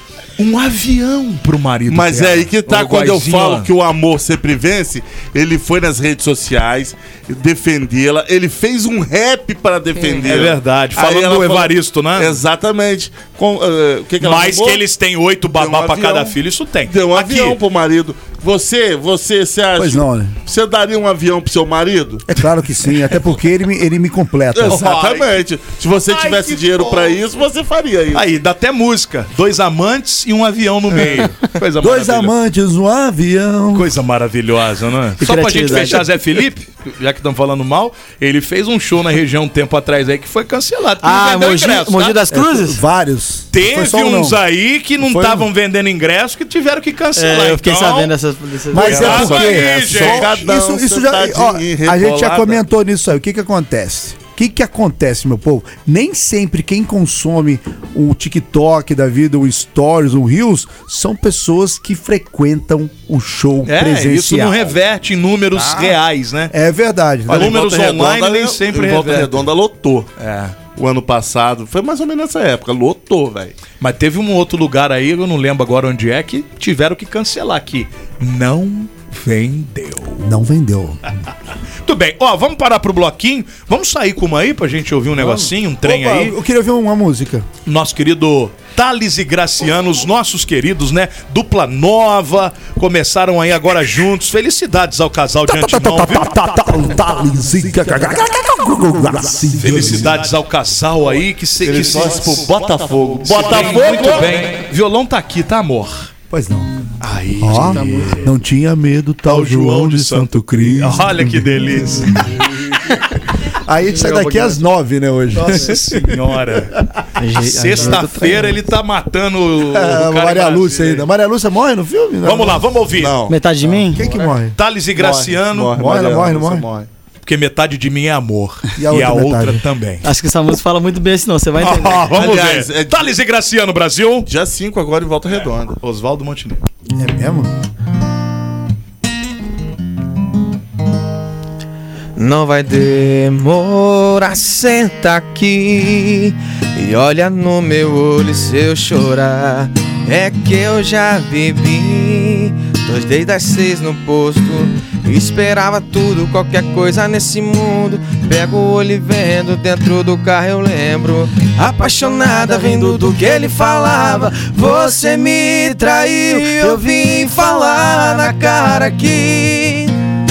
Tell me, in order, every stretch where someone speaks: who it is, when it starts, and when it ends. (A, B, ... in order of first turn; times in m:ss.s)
0:00.4-0:03.7 A
0:01.9-0:14.8 B
0:10.2-0:12.4 A
0:14.2-0:17.6 A
0:15.6-0:16.4 B
0:16.9-0:22.4 B
0:19.8-0:20.4 C
0:22.4-0:24.8 C
0:24.5-0:28.2 B
0:24.7-0:25.4 A
0:26.0-0:27.2 A
0:28.1-0:32.3 A
0:31.8-0:33.9 C
0:33.7-0:42.2 A
0:35.2-0:36.1 D
0:41.0-0:42.8 D
0:42.3-0:44.4 C
0:43.5-0:48.1 A
0:45.0-0:45.5 C
0:47.2-0:49.1 D
0:48.7-1:04.7 C
0:48.8-0:50.5 A
0:48.8-0:52.6 B
1:03.7-1:06.5 A
1:05.6-1:06.0 C
1:06.5-1:07.6 C
1:07.3-1:10.1 B
1:07.3-1:09.3 A
1:10.2-1:10.6 A
1:10.8-1:13.6 B
1:13.8-1:20.4 A
1:20.2-1:21.1 C
1:21.8-1:26.4 A
1:25.2-1:27.5 C
1:27.7-1:36.3 A
1:35.5-1:40.2 C
1:39.6-1:46.1 A
1:41.6-1:44.3 B
1:46.3-1:46.7 C
1:47.0-1:48.3 A
1:47.4-1:52.6 C
1:47.6-1:48.3 D
1:49.2-1:52.5 A
1:53.7-1:56.3 C
1:53.9-1:54.6 D
1:55.3-1:56.8 A
1:57.2-1:58.1 D
1:57.2-1:58.6 E
1:57.4-2:01.0 A
1:59.6-2:02.6 C
2:02.2-2:03.2 A
2:03.0-2:04.3 B
2:03.3-2:04.0 D
2:03.9-2:04.6 C
2:04.6-2:05.8 A
2:05.0-2:06.9 B
2:05.6-2:06.6 C
2:07.2-2:10.0 A
2:08.8-2:09.6 C
2:10.0-2:12.1 D
2:11.6-2:14.3 A
2:12.1-2:13.1 B
2:14.2-2:15.8 B
2:15.8-2:16.6 A
2:16.9-2:17.5 C
2:22.2-2:50.0 E
2:42.6-2:43.2 D